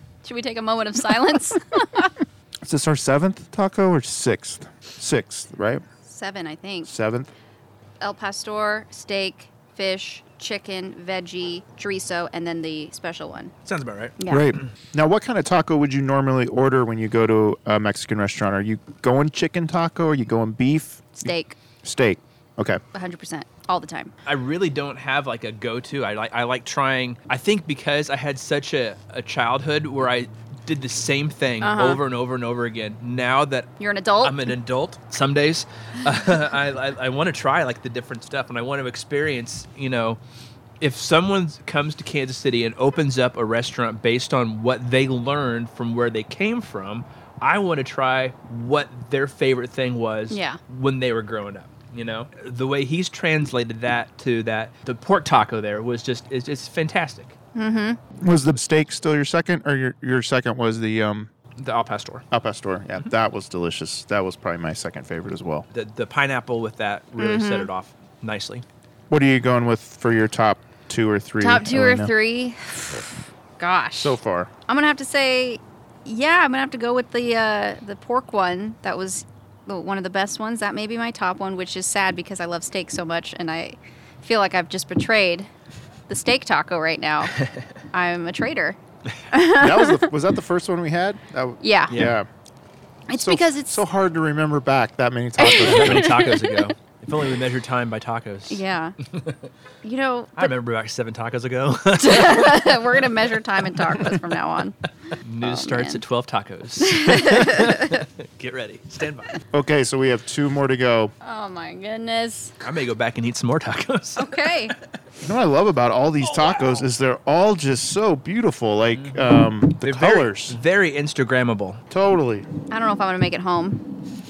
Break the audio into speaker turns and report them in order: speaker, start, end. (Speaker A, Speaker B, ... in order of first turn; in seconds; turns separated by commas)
Speaker A: 0.2-2.1, Speaker B: 2.6-5.8, Speaker A: 6.1-6.9, Speaker B: 6.8-7.3, Speaker A: 8.0-13.5, Speaker C: 13.7-14.2, Speaker A: 14.2-14.5, Speaker B: 14.3-21.3, Speaker A: 21.2-21.6, Speaker B: 21.8-22.8, Speaker A: 22.9-24.1, Speaker C: 24.3-33.7, Speaker A: 31.6-32.0, Speaker A: 33.8-34.5, Speaker C: 34.2-40.2, Speaker C: 40.8-57.4, Speaker A: 50.3-50.6, Speaker A: 57.5-58.0, Speaker B: 58.2-61.3, Speaker C: 61.6-62.2, Speaker B: 62.3-65.7, Speaker C: 65.7-68.7, Speaker A: 67.2-67.7, Speaker B: 69.1-72.1, Speaker A: 71.4-73.1, Speaker A: 73.6-74.2, Speaker B: 74.0-74.5, Speaker A: 74.7-85.5, Speaker A: 86.1-87.4, Speaker A: 87.9-88.8, Speaker A: 89.3-90.1, Speaker B: 89.5-92.3, Speaker A: 91.6-92.1, Speaker C: 91.9-92.2, Speaker A: 93.1-93.8, Speaker B: 93.2-96.1, Speaker A: 95.4-96.7, Speaker C: 95.4-99.5, Speaker A: 98.5-99.0, Speaker A: 99.8-100.5, Speaker C: 100.4-103.0, Speaker A: 102.0-104.8, Speaker C: 105.2-109.4, Speaker A: 105.4-106.0, Speaker A: 106.8-108.0, Speaker B: 109.5-111.1, Speaker A: 111.2-112.5, Speaker C: 112.6-114.8, Speaker A: 114.2-114.8, Speaker B: 115.2-120.6, Speaker C: 116.2-116.8, Speaker C: 118.9-119.2, Speaker C: 119.8-121.8, Speaker B: 121.9-122.5, Speaker A: 122.7-123.8